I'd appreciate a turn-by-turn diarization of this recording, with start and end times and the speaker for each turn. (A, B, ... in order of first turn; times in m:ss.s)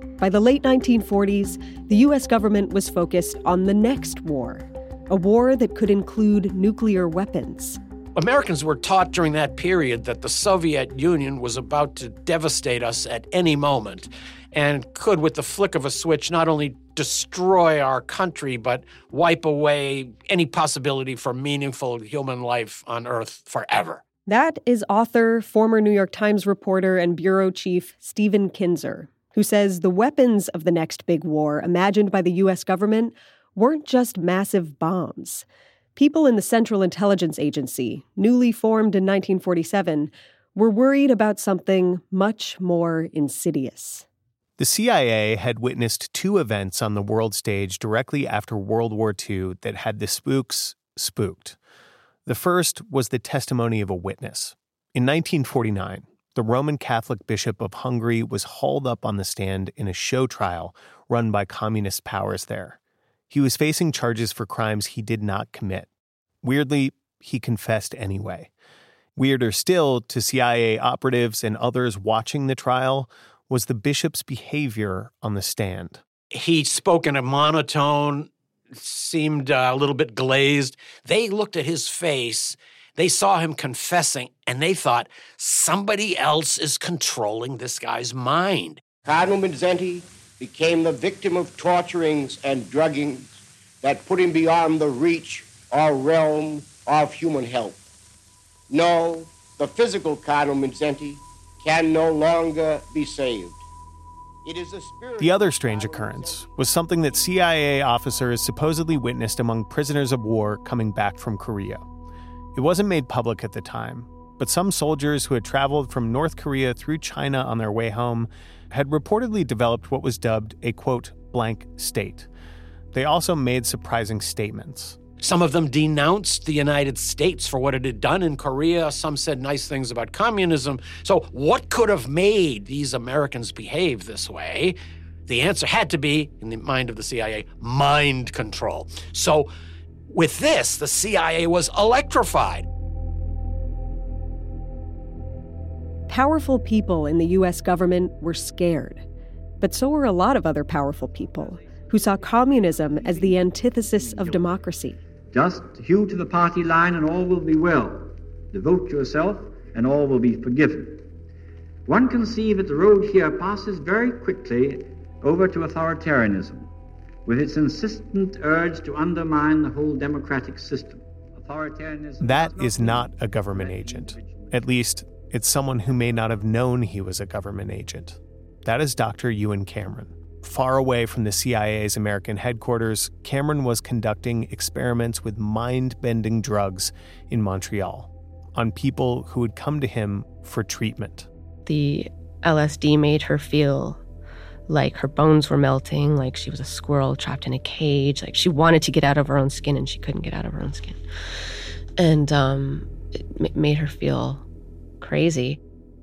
0:00.2-0:07.8 A
0:08.2-0:24.0 B
0:24.3-0:44.0 A
0:44.6-0:51.6 C
0:52.2-1:02.8 C
1:03.3-1:05.9 C
1:06.4-1:08.5 C
1:09.2-1:16.0 C
1:16.3-1:28.8 B
1:29.0-1:33.3 D
1:33.8-1:37.8 D
1:38.7-1:43.6 D
1:44.4-1:46.5 D
1:45.2-1:51.8 C
1:52.5-2:02.3 C
2:02.9-2:05.0 C
2:05.2-2:19.5 B
2:20.1-2:22.6 B
2:26.1-2:29.0 A
2:29.6-2:35.0 A
2:35.3-2:41.1 E
2:41.8-2:46.7 E
2:47.2-2:54.6 E
2:52.2-3:11.3 C
3:11.6-3:14.0 F
3:14.7-3:21.0 F
3:22.0-3:24.4 F
3:25.0-3:25.6 F